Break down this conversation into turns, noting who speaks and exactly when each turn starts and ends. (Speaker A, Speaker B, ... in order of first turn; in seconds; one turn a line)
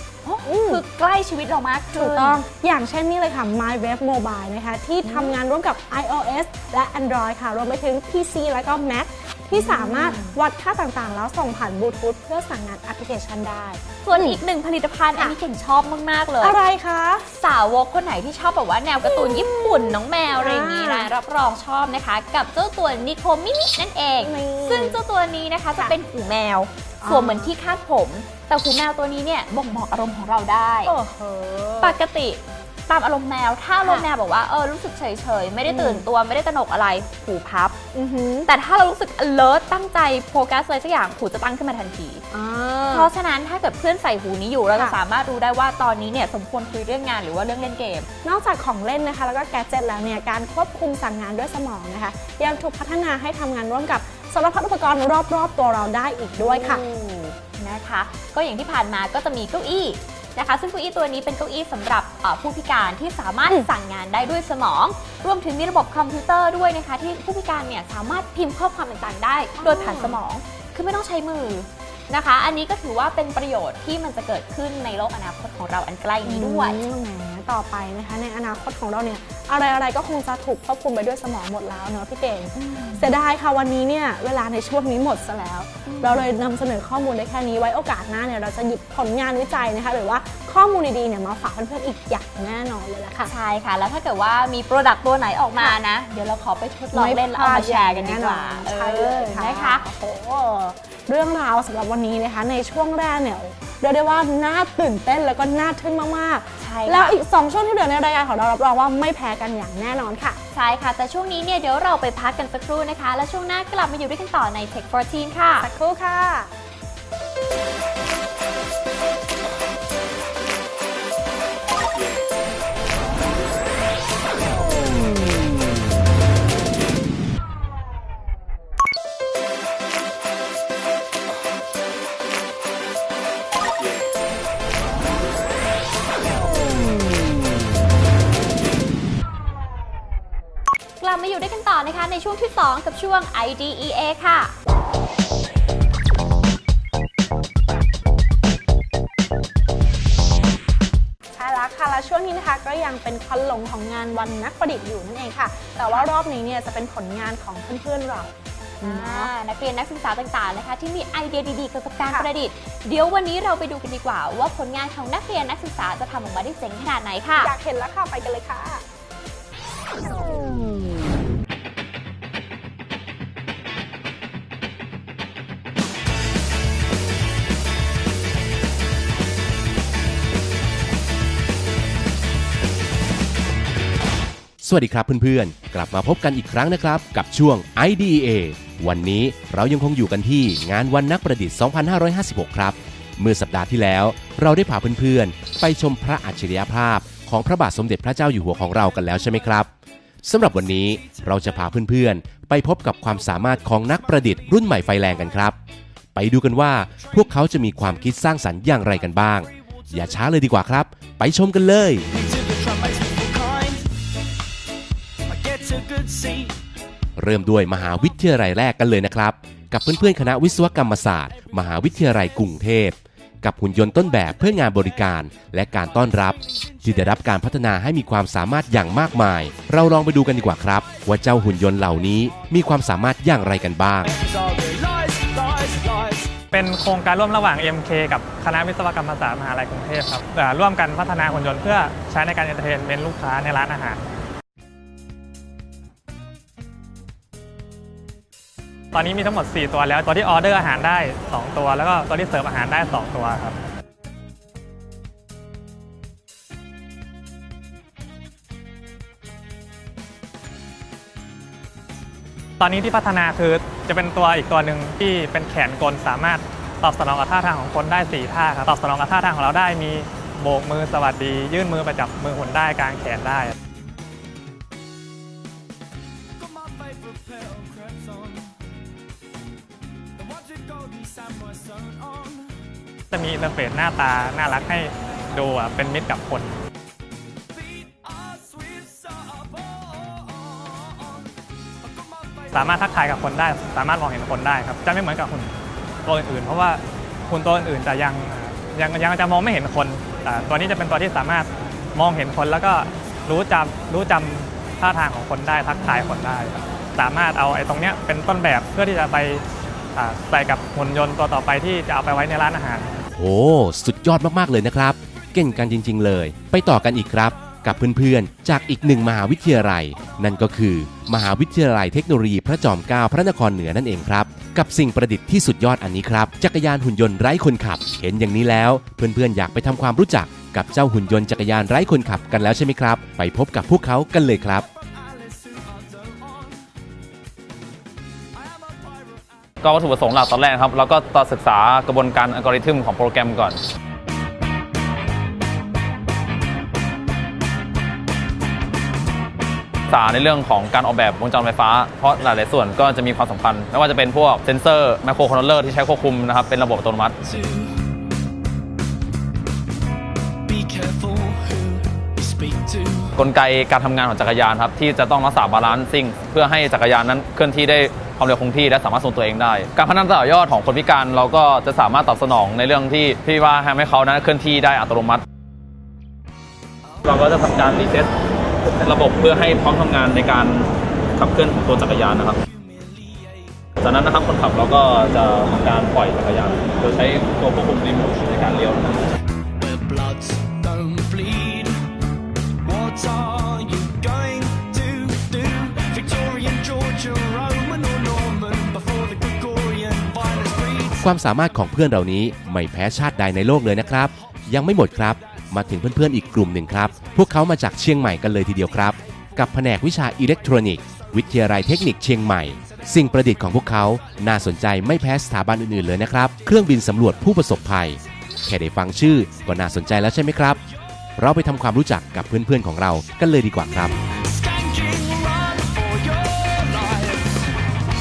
Speaker A: 0.2-2.4
Speaker B: 0.4-0.8
Speaker B: 1.9-14.4
Speaker A: 5.0-5.4
Speaker A: 9.5-10.4
Speaker A: 14.0-16.6
Speaker B: 16.4-17.2
Speaker A: 17.3-30.9
Speaker B: 19.1-21.1
Speaker B: 24.2-25.0
Speaker B: 27.0-27.5
Speaker B: 30.9-32.0
Speaker A: 31.8-37.8
Speaker B: 33.8-34.1
Speaker B: 35.6-36.0
Speaker B: 37.9-38.5
Speaker A: 38.5-42.2
Speaker B: 42.3-43.1
Speaker A: 42.9-48.1
Speaker B: 48.2-56.8
Speaker A: 56.4-76.8
Speaker B: 69.6-70.2
Speaker B: 76.2-93.3
Speaker A: 82.5-83.1
Speaker A: 85.9-86.2
Speaker A: 93.2-99.9
Speaker B: 96.9-110.4
Speaker A: 106.6-107.1
Speaker A: 110.5-115.7
Speaker B: 115.6-116.5
Speaker A: 141.0-144.6
Speaker B: 151.3-159.3
Speaker A: 158.8-167.5
Speaker B: 167.4-168.8
Speaker C: 184.6-199.7
Speaker C: 200.2-205.6
Speaker D: 200.8-201.5
Speaker D: 203.2-205.5
Speaker C: 206.2-212.1
Speaker D: 207.0-207.6
Speaker D: 209.9-210.2
Speaker D: 212.1-213.9
Speaker D: 215.3-216.6
Speaker C: 217.2-234.1
Speaker D: 234.0-236.3
Speaker E: 236.5-244.0
Speaker E: 248.9-253.6
Speaker E: 262.6-273.5
Speaker D: 276.4-278.6
Speaker D: 280.2-282.6
Speaker E: 283.1-286.6
Speaker D: 287.5-293.0
Speaker E: 292.5-295.5
Speaker E: 296.1-309.4
Speaker E: 309.9-312.9
Speaker C: 313.1-334.7
Speaker D: 334.6-336.7
Speaker D: 338.3-339.5
Speaker F: 339.6-343.6
Speaker F: 349.9-357.2
Speaker D: 357.2-357.8
Speaker D: 360.4-363.1
Speaker F: 363.2-375.2
Speaker F: 377.1-378.1
Speaker F: 378.6-382.4
Speaker D: 382.4-383.7
Speaker F: 383.8-389.1
Speaker D: 389.6-391.8
Speaker D: 392.6-401.1
Speaker C: 401.0-420.6
Speaker D: 404.5-406.6
Speaker D: 408.7-409.6
Speaker D: 410.2-414.9
Speaker D: 419.0-420.6
Speaker C: 421.2-423.9
Speaker D: 424.0-427.4